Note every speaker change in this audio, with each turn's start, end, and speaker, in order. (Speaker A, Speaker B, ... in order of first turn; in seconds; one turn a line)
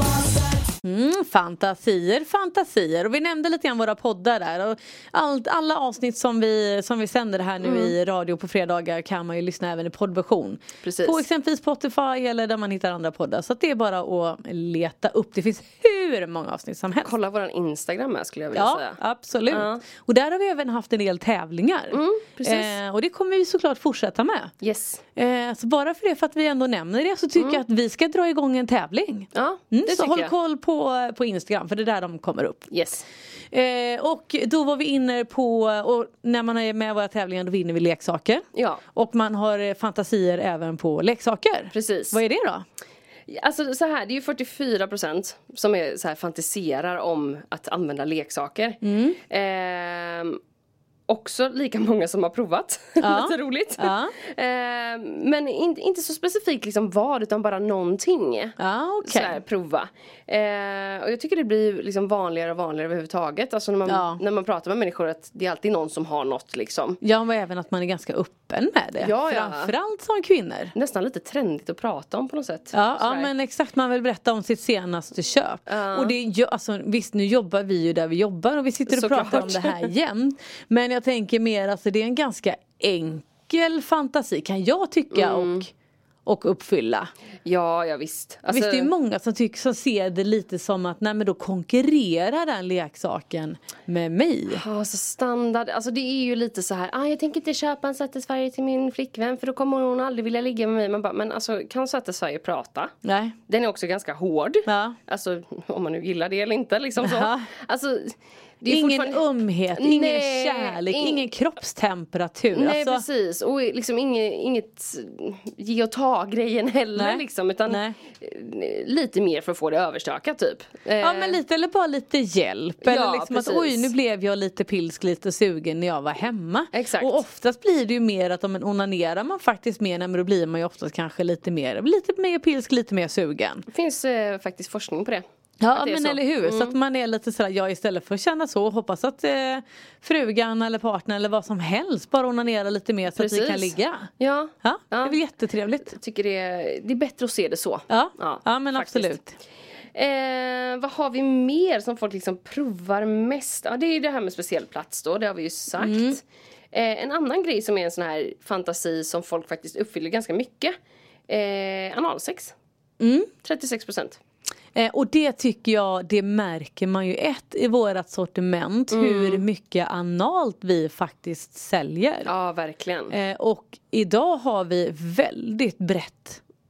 Speaker A: 0.8-17.1
Speaker B: 7.6-7.9
Speaker B: 10.8-11.2
Speaker B: 17.0-19.8
Speaker A: 18.6-24.5
Speaker B: 21.9-22.8
Speaker B: 24.6-25.0
Speaker A: 25.1-32.7
Speaker B: 29.3-30.3
Speaker B: 32.7-33.1
Speaker A: 33.5-42.6
Speaker B: 38.5-38.8
Speaker B: 41.7-42.2
Speaker B: 43.3-50.4
Speaker A: 48.8-49.2
Speaker B: 51.1-67.0
Speaker A: 53.0-54.1
Speaker A: 58.6-59.4
Speaker A: 63.9-64.2
Speaker A: 67.0-70.7
Speaker B: 69.0-69.7
Speaker B: 70.8-73.3
Speaker A: 72.7-85.7
Speaker B: 75.7-76.1
Speaker B: 78.9-79.9
Speaker B: 85.1-85.7
Speaker A: 86.2-87.1
Speaker B: 87.5-88.9
Speaker A: 88.5-94.6
Speaker B: 94.5-102.9
Speaker A: 103.0-103.4
Speaker B: 103.5-111.2
Speaker A: 104.7-105.0
Speaker A: 107.0-107.5
Speaker A: 108.7-113.0
Speaker B: 112.5-121.4
Speaker A: 117.0-118.0
Speaker A: 121.0-133.6
Speaker B: 122.8-123.9
Speaker B: 126.7-127.2
Speaker B: 133.7-136.8
Speaker A: 135.6-144.1
Speaker B: 143.1-145.2
Speaker A: 144.6-145.9
Speaker B: 145.9-149.2
Speaker A: 147.9-149.3
Speaker B: 149.9-160.8
Speaker A: 155.8-156.2
Speaker B: 161.3-162.6
Speaker A: 163.0-163.3
Speaker B: 163.4-164.2
Speaker A: 164.8-172.3
Speaker B: 168.9-169.4
Speaker B: 172.2-173.1
Speaker A: 173.1-176.4